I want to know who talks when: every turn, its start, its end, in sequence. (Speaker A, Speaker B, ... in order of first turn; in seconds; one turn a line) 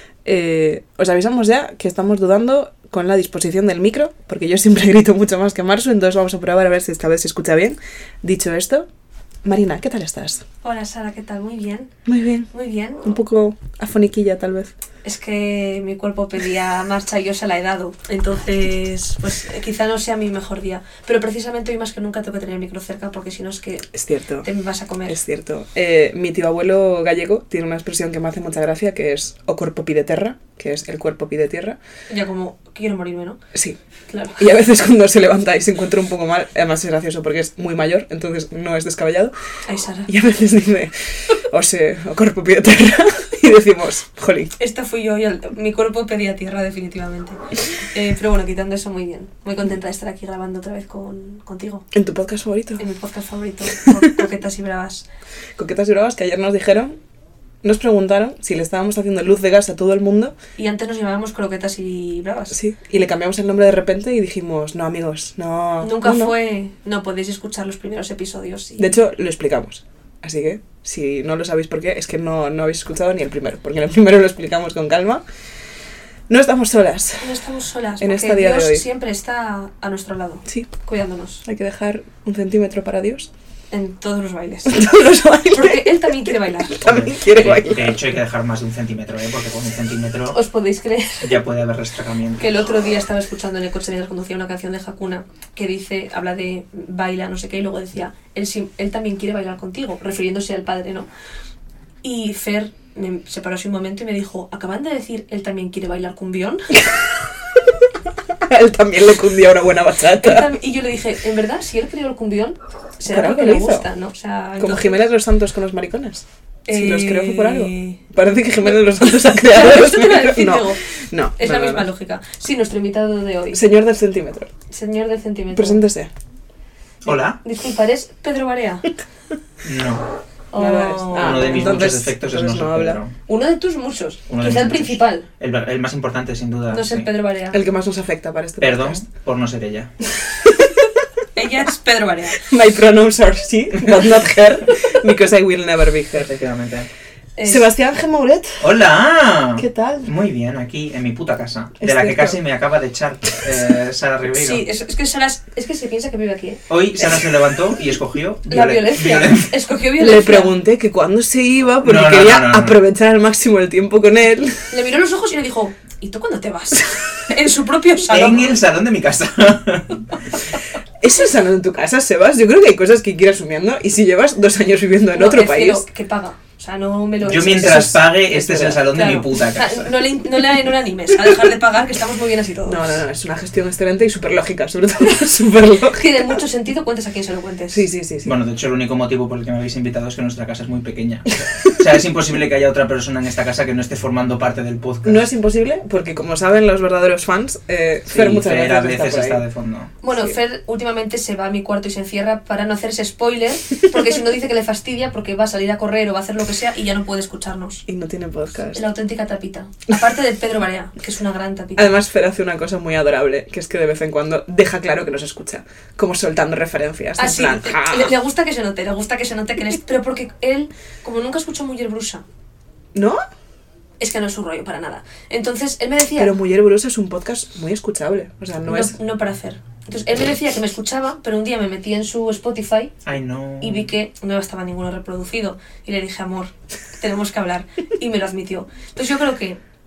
Speaker A: 0.2-8.9
Speaker A: 9.4-10.4
Speaker B: 10.6-11.9
Speaker A: 12.1-12.5
Speaker B: 12.5-13.0
Speaker A: 13.0-14.7
Speaker B: 15.0-23.9
Speaker A: 23.9-24.5
Speaker B: 24.4-25.2
Speaker A: 25.1-31.8
Speaker B: 32.1-33.4
Speaker B: 34.1-34.5
Speaker A: 34.4-39.3
Speaker B: 39.7-40.1
Speaker A: 40.1-44.5
Speaker B: 44.6-51.9
Speaker A: 51.9-52.8
Speaker B: 52.8-55.0
Speaker A: 55.6-57.0
Speaker A: 57.6-60.3
Speaker B: 60.6-62.5
Speaker A: 62.5-66.3
Speaker B: 65.8-68.9
Speaker A: 68.8-75.2
Speaker A: 76.3-77.3
Speaker B: 77.2-81.4
Speaker A: 78.0-78.9
Speaker A: 81.5-83.3
Speaker B: 83.7-84.9
Speaker A: 84.7-88.0
Speaker B: 85.5-86.8
Speaker C: 86.8-90.4
Speaker B: 90.3-91.4
Speaker C: 91.2-92.6
Speaker B: 92.4-101.1
Speaker B: 102.0-106.7
Speaker A: 106.8-107.6
Speaker A: 108.4-110.5
Speaker B: 110.2-115.1
Speaker A: 113.1-113.9
Speaker A: 114.6-121.9
Speaker B: 116.7-118.0
Speaker B: 119.0-120.8
Speaker B: 121.4-123.6
Speaker A: 123.5-124.5
Speaker B: 124.7-125.8
Speaker A: 125.5-126.1
Speaker C: 127.0-127.4
Speaker B: 127.4-128.9
Speaker C: 129.6-130.1
Speaker B: 130.5-131.7
Speaker A: 130.6-133.0
Speaker C: 131.1-133.1
Speaker B: 133.3-135.3
Speaker C: 134.3-137.1
Speaker B: 136.7-137.6
Speaker A: 137.5-139.0
Speaker C: 138.6-139.9
Speaker A: 140.4-140.8
Speaker B: 141.3-142.4
Speaker A: 142.4-146.2
Speaker C: 146.1-146.9
Speaker B: 147.4-147.7
Speaker A: 147.4-148.7
Speaker C: 148.6-154.7
Speaker A: 149.6-150.1
Speaker A: 151.8-152.4
Speaker B: 154.3-156.6
Speaker C: 156.7-159.5
Speaker B: 158.5-160.5
Speaker A: 160.0-164.7
Speaker C: 161.8-162.8
Speaker B: 164.7-168.6
Speaker C: 168.1-170.1
Speaker A: 171.0-175.8
Speaker B: 175.1-177.9
Speaker C: 177.2-179.9
Speaker A: 177.6-178.9
Speaker B: 178.9-183.0
Speaker A: 182.6-186.3
Speaker B: 185.9-187.8
Speaker A: 187.7-188.3
Speaker C: 188.2-195.2
Speaker A: 195.0-199.4
Speaker C: 198.1-199.9
Speaker B: 200.0-207.8
Speaker A: 207.9-208.8
Speaker B: 208.7-211.9
Speaker A: 211.8-218.1
Speaker B: 217.2-222.2
Speaker A: 222.9-223.2
Speaker B: 224.0-226.3
Speaker A: 226.2-228.9
Speaker B: 228.7-232.9
Speaker C: 233.0-233.9
Speaker B: 233.6-239.6